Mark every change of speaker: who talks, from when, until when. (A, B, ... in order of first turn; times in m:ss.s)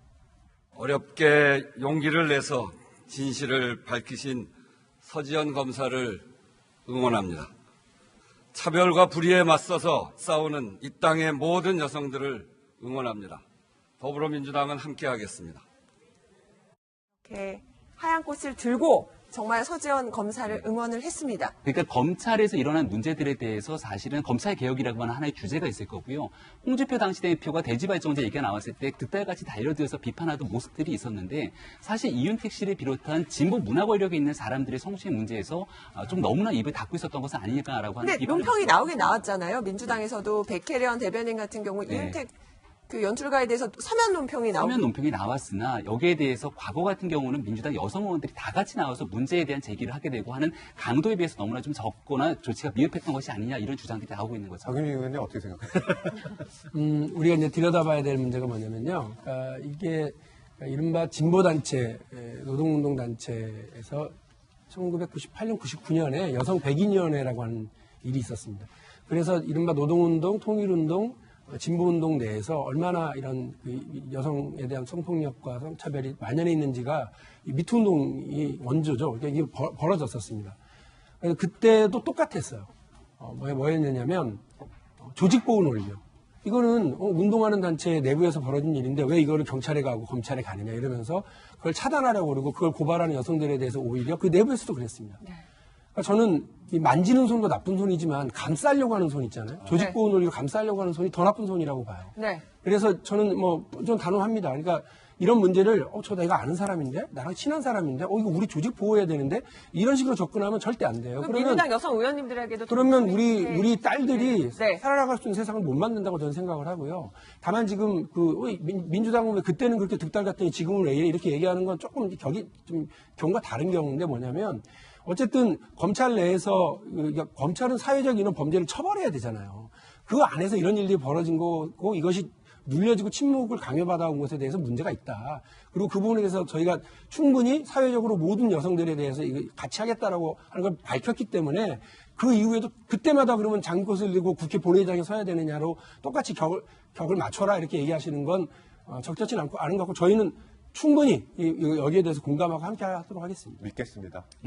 0:00.8-0:04.5 A
0:05.0-0:06.3 A
0:06.9-0:07.5 A
0:08.5-0:13.4 A
0:14.0-0:15.6 A
0:17.2-0:21.6 B
0:21.6-0:38.9 C
0:38.0-0:42.3 B
0:41.9-0:42.2 C
0:42.9-0:44.8 B
0:44.5-0:54.8 C
0:54.6-0:56.3 D
0:56.7-1:04.1 E
1:04.7-1:20.6 E
1:21.2-1:24.4 E
1:25.0-1:35.2 E
1:36.0-1:51.7 E
1:42.2-1:42.4 B
1:51.2-1:54.8 B
1:52.7-2:33.6 E
2:33.6-2:34.3 D